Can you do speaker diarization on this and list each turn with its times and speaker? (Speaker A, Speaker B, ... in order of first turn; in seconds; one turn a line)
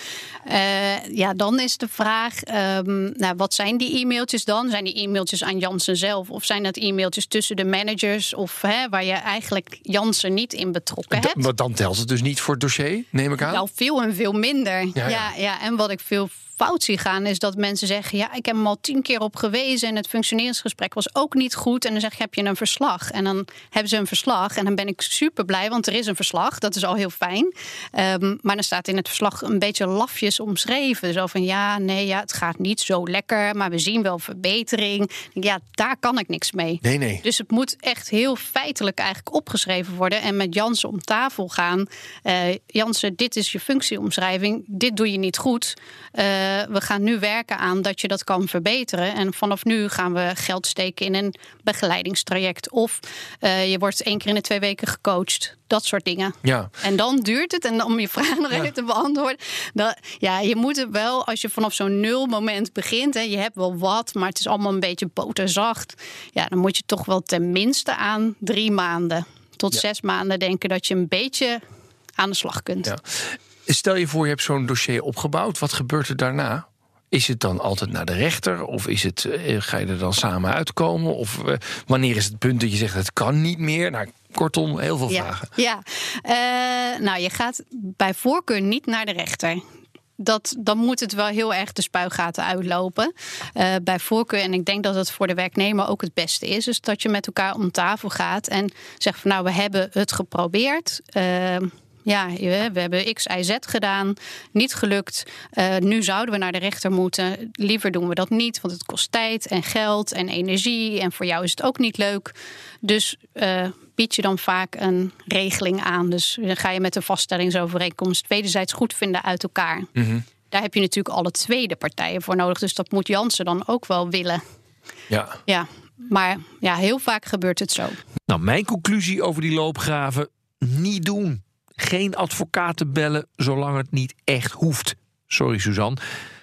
Speaker A: 0.5-11.4
Speaker B: 11.1-13.6
Speaker A: 13.5-71.6
Speaker B: 15.0-15.2
Speaker B: 36.8-37.2
Speaker B: 56.4-56.7
Speaker A: 72.2-72.9
Speaker B: 72.8-85.5
Speaker A: 85.1-89.6
Speaker A: 90.2-119.9
Speaker B: 120.0-120.2
Speaker A: 120.5-124.4
Speaker B: 125.1-125.4
Speaker A: 125.5-128.0
Speaker C: 128.3-136.0